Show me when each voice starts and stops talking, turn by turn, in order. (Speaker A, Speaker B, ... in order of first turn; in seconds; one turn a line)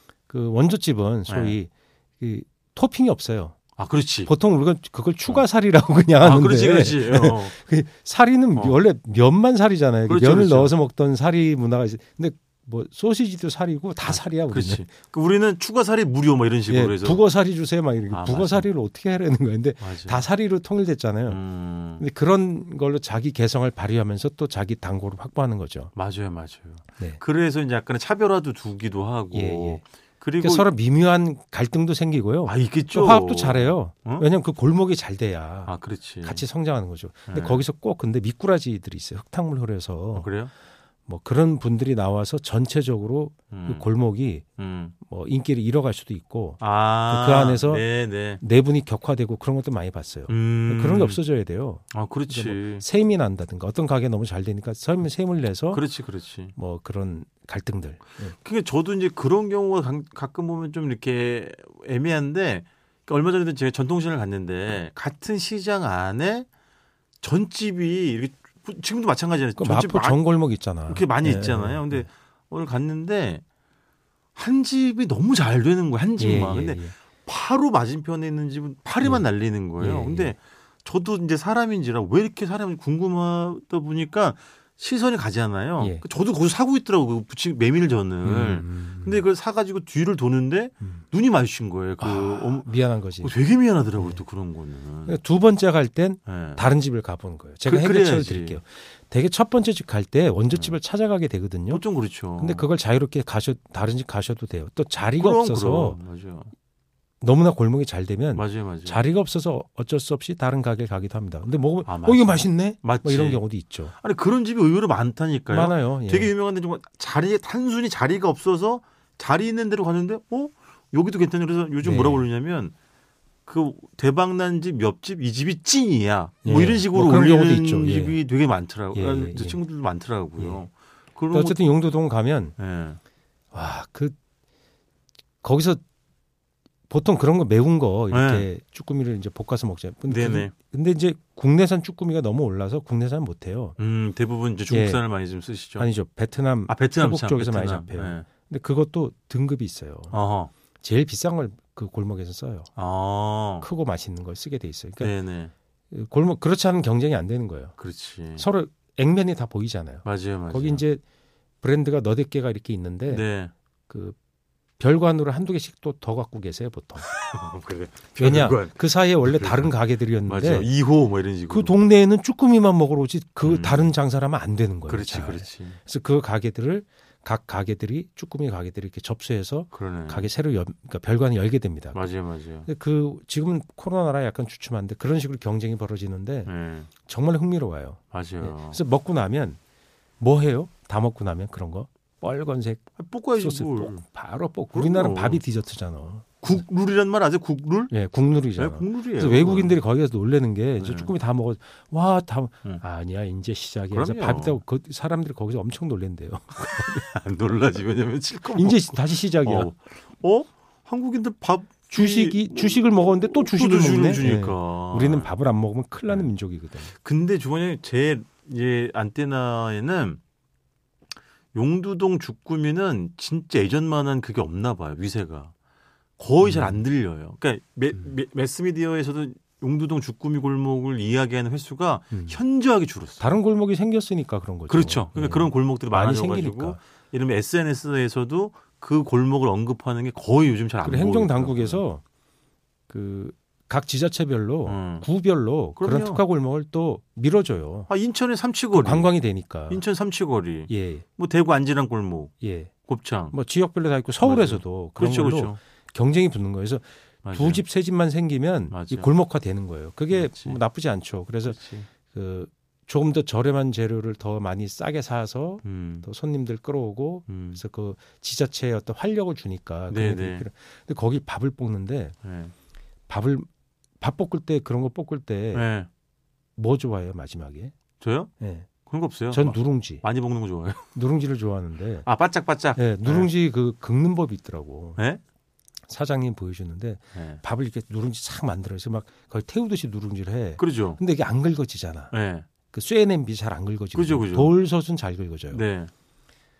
Speaker A: 0.3-3.5
Speaker B: 1.3-1.6
Speaker B: 3.8-4.3
Speaker A: 4.3-14.8
Speaker B: 6.2-7.5
Speaker B: 10.1-10.8
Speaker B: 14.0-17.2
Speaker A: 16.7-21.4
Speaker B: 18.1-18.7
Speaker B: 19.8-20.3
Speaker B: 21.3-22.0
Speaker A: 22.0-25.9
Speaker B: 25.9-30.7
Speaker A: 29.3-29.8
Speaker A: 30.4-40.3
Speaker B: 32.4-34.2
Speaker B: 35.6-36.4
Speaker B: 37.3-37.6
Speaker B: 40.1-40.5
Speaker A: 41.1-44.5
Speaker B: 43.5-43.9
Speaker B: 44.6-44.9
Speaker A: 45.0-55.9
Speaker B: 46.6-48.4
Speaker B: 50.3-51.2
Speaker B: 51.9-52.8
Speaker B: 55.7-56.5
Speaker A: 56.5-58.3
Speaker B: 58.4-66.5
Speaker B: 67.2-70.2
Speaker A: 69.6-72.1
Speaker B: 70.8-73.4
Speaker B: 74.3-92.7
Speaker A: 76.2-76.9
Speaker A: 79.8-80.3
Speaker A: 85.8-86.0
Speaker A: 88.2-89.2
Speaker A: 92.0-93.3
Speaker B: 93.2-95.2
Speaker A: 93.9-94.2
Speaker A: 95.0-101.8
Speaker B: 96.2-96.7
Speaker B: 97.6-98.6
Speaker B: 100.5-100.8
Speaker B: 101.7-102.7
Speaker A: 102.3-106.0
Speaker B: 105.2-106.5
Speaker A: 107.2-113.9
Speaker B: 108.3-109.0
Speaker B: 111.8-122.7
Speaker A: 115.5-116.3
Speaker A: 121.8-122.3
Speaker B: 123.5-131.6
Speaker A: 126.4-128.2
Speaker A: 128.9-129.6
Speaker A: 130.4-130.6
Speaker A: 131.3-132.5
Speaker B: 132.6-133.0
Speaker A: 133.5-134.2
Speaker A: 135.4-135.8
Speaker A: 136.9-143.8
Speaker B: 138.1-138.5
Speaker B: 140.1-140.5
Speaker B: 143.8-145.9
Speaker A: 144.7-145.0
Speaker A: 145.8-150.2
Speaker B: 146.7-148.3
Speaker B: 150.1-150.5
Speaker A: 150.8-152.7
Speaker B: 152.8-153.7
Speaker A: 153.6-155.1
Speaker B: 155.0-155.5
Speaker A: 155.9-157.8
Speaker B: 157.8-158.5
Speaker A: 158.3-161.0
Speaker B: 160.0-160.8
Speaker A: 161.6-163.2
Speaker B: 163.1-163.5
Speaker A: 163.9-164.2
Speaker A: 164.8-167.1
Speaker B: 167.1-171.8
Speaker A: 168.2-170.7
Speaker A: 171.5-182.1
Speaker B: 173.4-173.9
Speaker B: 174.9-175.8
Speaker B: 179.7-180.3
Speaker B: 181.9-182.7
Speaker A: 182.7-186.5
Speaker B: 186.4-186.9
Speaker A: 187.1-189.6
Speaker B: 188.1-188.8
Speaker A: 190.2-196.6
Speaker B: 193.0-194.0
Speaker B: 194.7-195.4
Speaker B: 196.4-198.0
Speaker A: 197.9-207.1
Speaker B: 198.5-199.8
Speaker B: 200.8-201.1
Speaker B: 203.9-204.6
Speaker B: 206.9-215.3
Speaker A: 208.5-209.7
Speaker A: 211.9-216.9
Speaker B: 216.9-220.2
Speaker B: 221.5-225.5
Speaker B: 226.2-233.3
Speaker A: 226.4-226.8
Speaker A: 232.1-232.4
Speaker A: 233.2-236.8
Speaker B: 234.7-241.8
Speaker A: 240.8-242.0
Speaker A: 242.9-247.9
Speaker B: 244.7-245.1
Speaker B: 245.8-246.2
Speaker B: 247.9-252.3
Speaker A: 248.7-249.8
Speaker A: 250.7-251.0
Speaker A: 252.4-252.7
Speaker B: 252.8-253.3
Speaker A: 253.3-272.1
Speaker B: 254.2-255.6
Speaker B: 257.2-257.6
Speaker B: 258.7-259.1
Speaker B: 260.1-260.6
Speaker B: 261.5-261.9
Speaker B: 265.6-266.1
Speaker B: 267.3-267.6
Speaker B: 269.9-270.4
Speaker B: 272.2-272.5
Speaker A: 273.1-273.5
Speaker A: 274.0-275.7
Speaker B: 275.5-275.9
Speaker A: 276.6-277.7
Speaker B: 278.0-278.3
Speaker A: 278.4-278.7
Speaker B: 278.9-280.9
Speaker A: 279.3-280.0
Speaker A: 280.9-282.1
Speaker B: 282.0-283.3
Speaker A: 282.7-285.0
Speaker A: 285.9-292.1
Speaker B: 287.1-287.4
Speaker B: 290.6-291.0
Speaker B: 292.1-292.4
Speaker A: 292.7-295.6
Speaker B: 293.9-294.6
Speaker B: 295.5-295.9